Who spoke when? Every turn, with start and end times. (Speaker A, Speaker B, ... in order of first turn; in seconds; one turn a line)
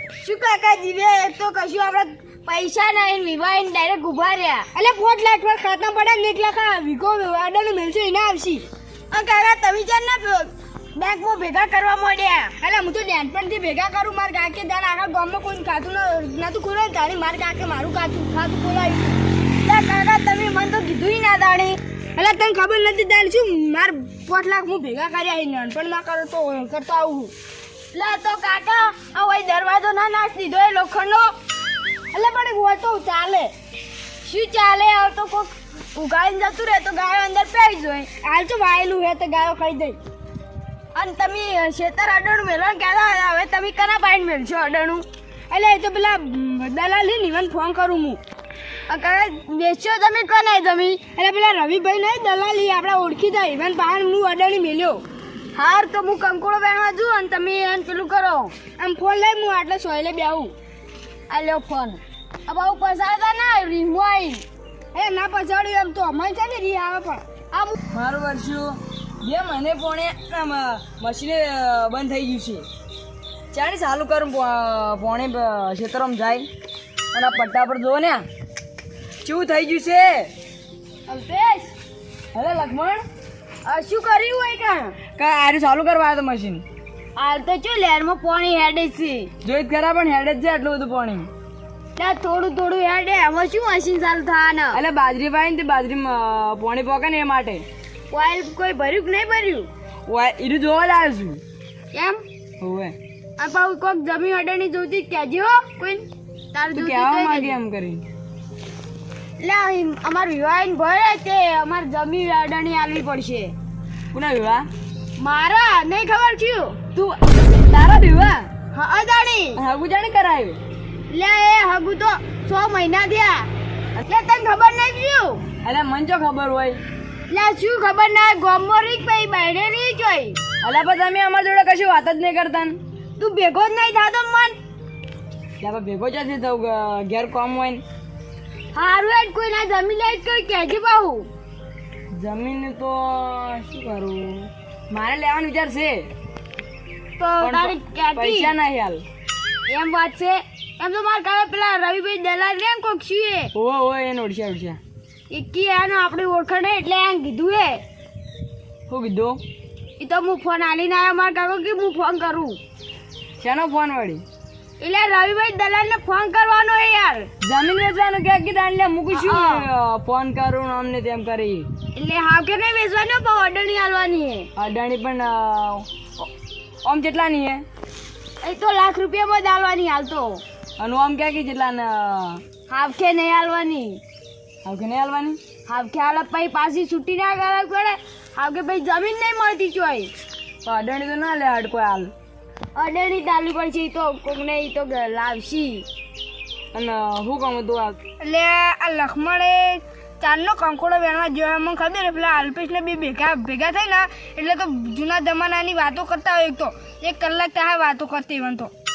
Speaker A: 0.2-4.7
Speaker B: 4.7-8.7
Speaker A: 9.1-12.5
Speaker B: 12.6-19.2
Speaker A: 19.6-21.8
Speaker B: 22.2-27.3
Speaker A: 27.9-31.3
Speaker B: 32.1-33.5
Speaker A: 34.2-38.1
Speaker B: 38.2-40.0
Speaker A: 41.0-45.0
Speaker B: 45.5-48.2
Speaker A: 48.9-51.0
Speaker B: 51.1-55.0
Speaker A: 55.5-58.5
Speaker B: 58.8-60.5
Speaker A: 61.3-64.4
Speaker B: 64.9-67.2
Speaker C: 67.9-72.7
Speaker C: 73.5-76.5
Speaker C: 77.1-78.2
Speaker C: 79.2-80.3
Speaker A: 81.1-81.7
Speaker C: 82.3-83.0
Speaker A: 83.7-85.0
Speaker C: 85.2-86.6
Speaker A: 87.2-89.3
Speaker C: 89.4-91.3
Speaker A: 92.0-94.8
Speaker C: 94.7-97.7
Speaker A: 98.1-99.7
Speaker C: 100.1-101.4
Speaker A: 101.9-102.2
Speaker C: 102.6-103.0
Speaker A: 103.4-107.6
Speaker C: 106.7-108.0
Speaker A: 109.4-113.5
Speaker C: 114.1-114.7
Speaker A: 115.2-116.8
Speaker C: 117.7-118.5
Speaker A: 118.7-119.6
Speaker C: 119.5-120.6
Speaker A: 121.1-123.5
Speaker A: 124.0-125.4
Speaker C: 125.6-126.8
Speaker A: 127.3-130.4
Speaker C: 130.6-132.8
Speaker A: 133.2-134.6
Speaker C: 135.6-137.8
Speaker A: 138.7-141.3
Speaker C: 142.1-146.1
Speaker A: 147.2-148.5
Speaker C: 147.4-149.1
Speaker A: 149.7-153.5
Speaker C: 153.5-154.8
Speaker A: 155.3-157.8
Speaker C: 158.9-159.4
Speaker A: 160.0-162.6
Speaker C: 163.4-164.2
Speaker A: 164.8-167.3
Speaker C: 167.4-171.7
Speaker A: 169.1-169.7
Speaker A: 171.9-174.5
Speaker C: 174.6-176.3
Speaker C: 176.8-177.7
Speaker A: 178.4-180.4
Speaker C: 180.8-182.4
Speaker A: 182.7-184.0
Speaker C: 184.6-185.4
Speaker A: 185.7-190.1
Speaker C: 190.7-192.1
Speaker A: 192.8-195.8
Speaker C: 196.7-198.0
Speaker B: 198.2-208.7